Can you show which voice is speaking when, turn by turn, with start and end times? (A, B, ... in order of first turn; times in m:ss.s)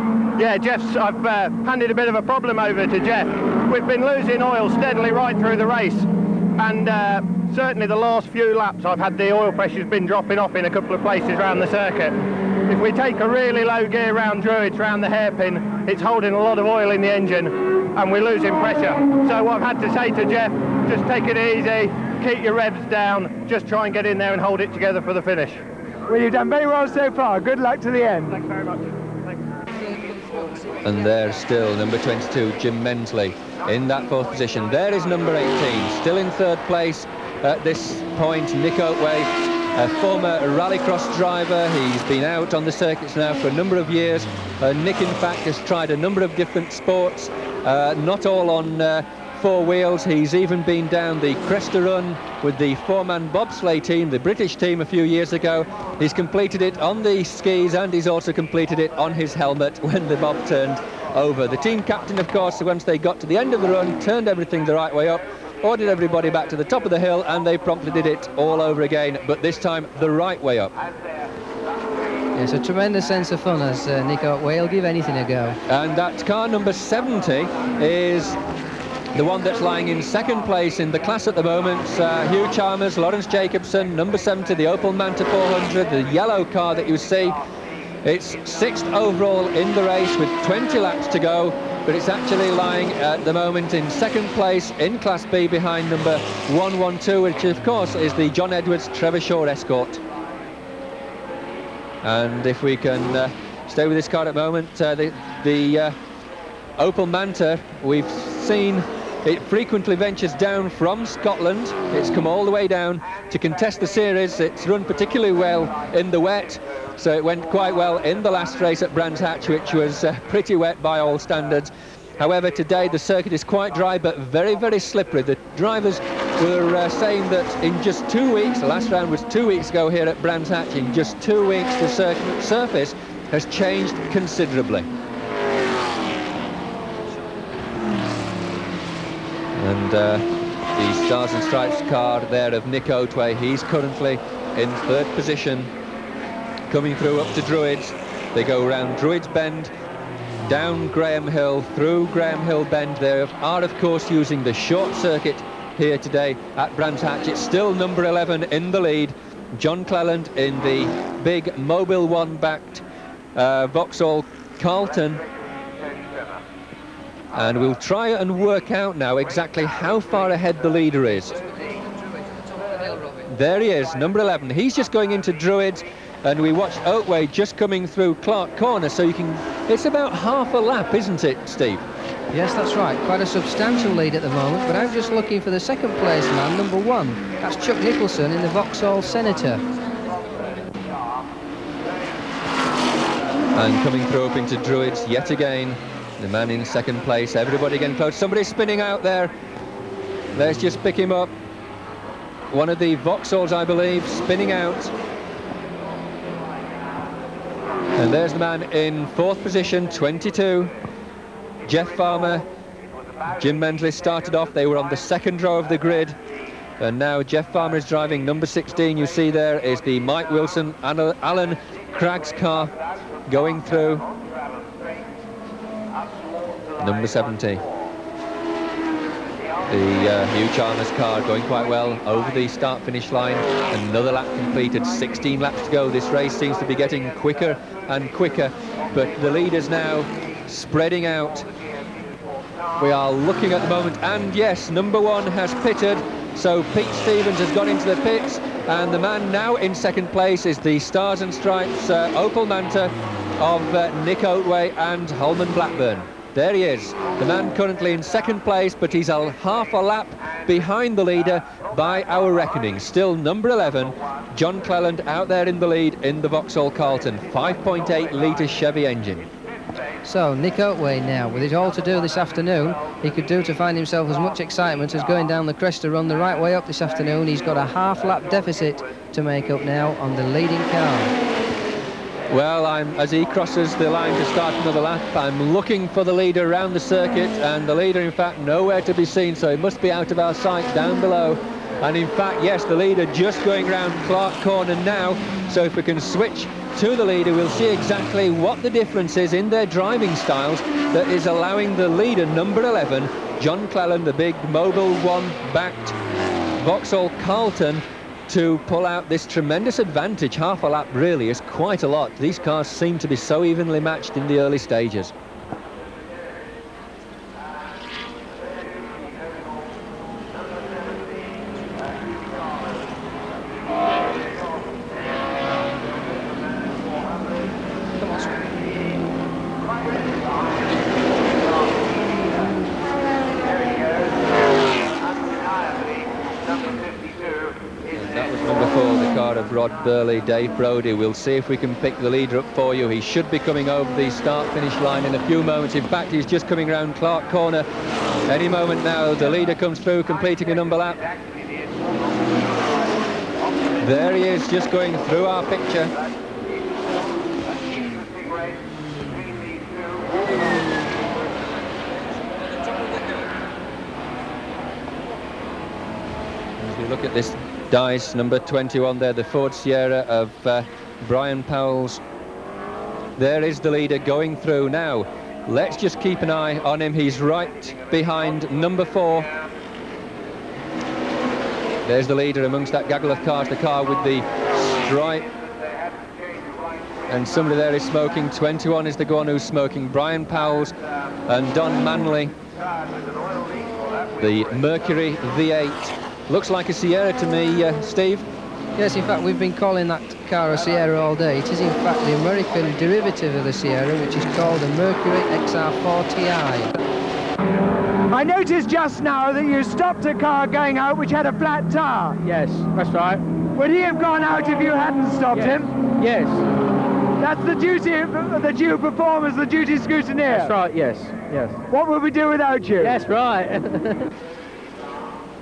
0:00.4-0:25.6 A
0:26.1-0:28.4 B
0:30.8-1:10.7 C
1:12.3-1:15.6 D
1:15.7-1:18.4 C
1:19.1-1:27.4 C
1:28.0-1:40.0 C
1:42.0-1:45.9 C
1:46.8-2:14.9 C
2:19.6-2:25.7 C
2:26.7-2:29.7 C
2:30.4-2:42.8 C
2:43.3-2:45.2 C
2:47.3-2:51.4 C
2:53.3-3:01.8 C
3:02.3-3:09.6 D
3:13.5-3:19.3 C
3:20.3-3:21.3 C
3:22.5-3:24.9 C
3:27.9-3:30.7 C
3:31.6-3:32.4 C
3:33.4-3:36.2 C
3:36.8-3:42.7 C
3:43.3-3:44.0 C
3:46.8-3:47.6 C
3:49.7-4:01.5 C
4:02.8-4:29.2 C
4:30.0-4:41.1 D
4:42.3-5:05.9 C
5:06.6-5:15.1 C
5:37.9-5:47.6 C
5:48.3-5:51.0 C
5:53.8-5:55.9 C
6:06.6-6:12.0 C
6:13.2-6:19.3 C
6:21.8-6:25.3 C
6:27.1-6:30.7 C
6:31.3-6:32.3 C
6:34.2-6:38.2 C
6:38.8-6:46.7 D
6:48.1-6:52.2 B
6:52.2-6:53.2 E
6:53.5-6:55.7 B
6:55.3-6:56.4 E
6:57.2-7:00.5 B
7:00.3-7:01.6 E
7:01.7-7:03.0 B
7:02.8-7:04.0 E